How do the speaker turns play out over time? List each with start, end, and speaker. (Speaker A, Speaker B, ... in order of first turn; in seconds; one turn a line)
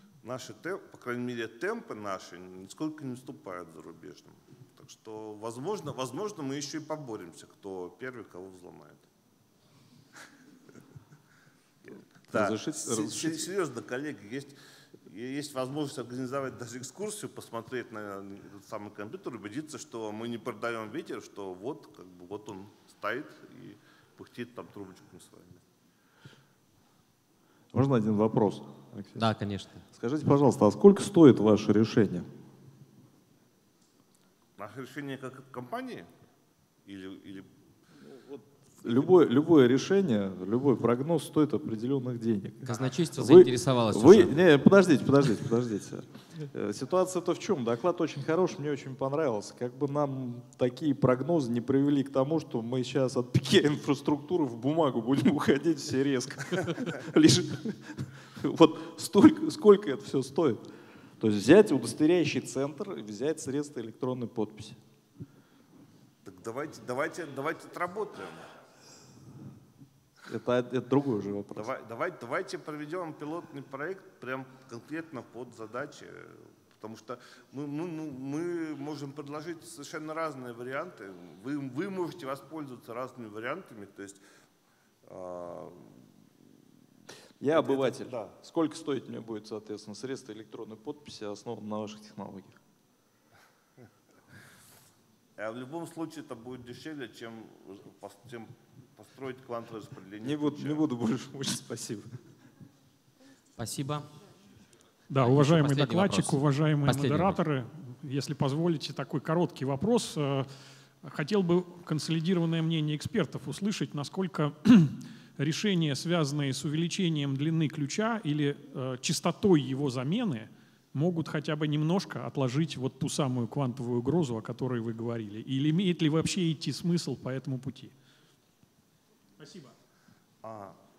Speaker A: 0.2-9.0
Speaker A: 12.2-25.6
Speaker B: 12.3-13.4
Speaker B: 27.7-29.2
Speaker C: 29.1-29.8
Speaker B: 29.9-32.3
Speaker A: 34.6-36.1
Speaker A: 36.9-37.5
Speaker B: 38.3-60.6
Speaker C: 42.6-44.4
Speaker B: 61.2-64.8
Speaker A: 66.2-68.5
Speaker B: 70.3-71.7
Speaker A: 71.5-84.2
Speaker A: 85.0-86.0
Speaker B: 87.4-92.6
Speaker A: 87.5-88.3
Speaker A: 95.4-100.9
Speaker B: 100.2-102.2
Speaker C: 103.6-104.1
Speaker D: 105.1-110.5
Speaker C: 105.2-107.4
Speaker D: 111.0-127.9
Speaker D: 129.4-129.7
Speaker A: 130.4-130.8